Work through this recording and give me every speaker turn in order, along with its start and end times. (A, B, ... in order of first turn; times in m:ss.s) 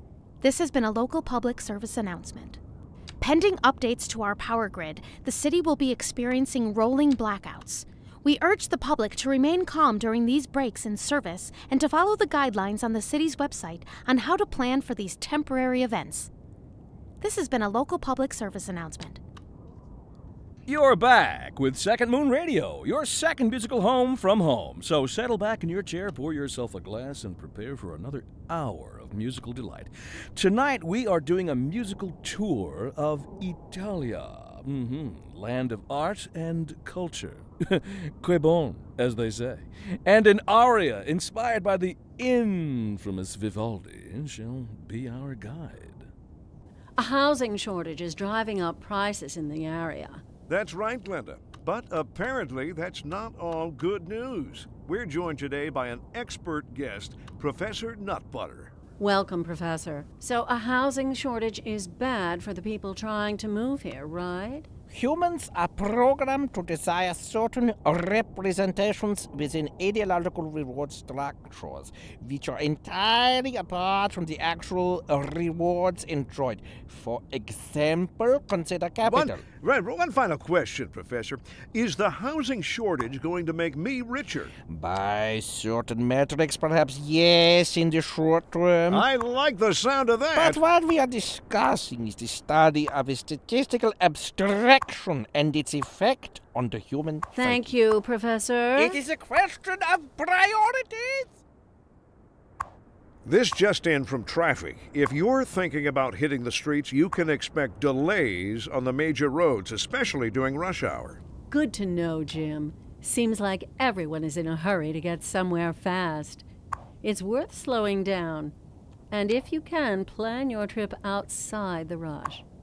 0:00.4-0:02.6 A
0:03.2-0:16.3 A
0:17.2-0:19.2 A
0:20.7-0:46.1 B
0:47.0-0:50.2 C
0:50.5-0:58.7 D
0:59.0-1:04.7 C
1:04.9-1:19.4 E
1:19.1-1:24.5 D
1:24.7-1:29.0 E
1:28.9-1:30.6 D
1:30.4-1:37.7 E
1:37.4-1:39.0 C
1:38.8-1:41.4 E
1:43.2-1:51.2 D
1:51.5-1:56.4 C
1:57.0-1:58.5 C
1:59.1-2:02.4 C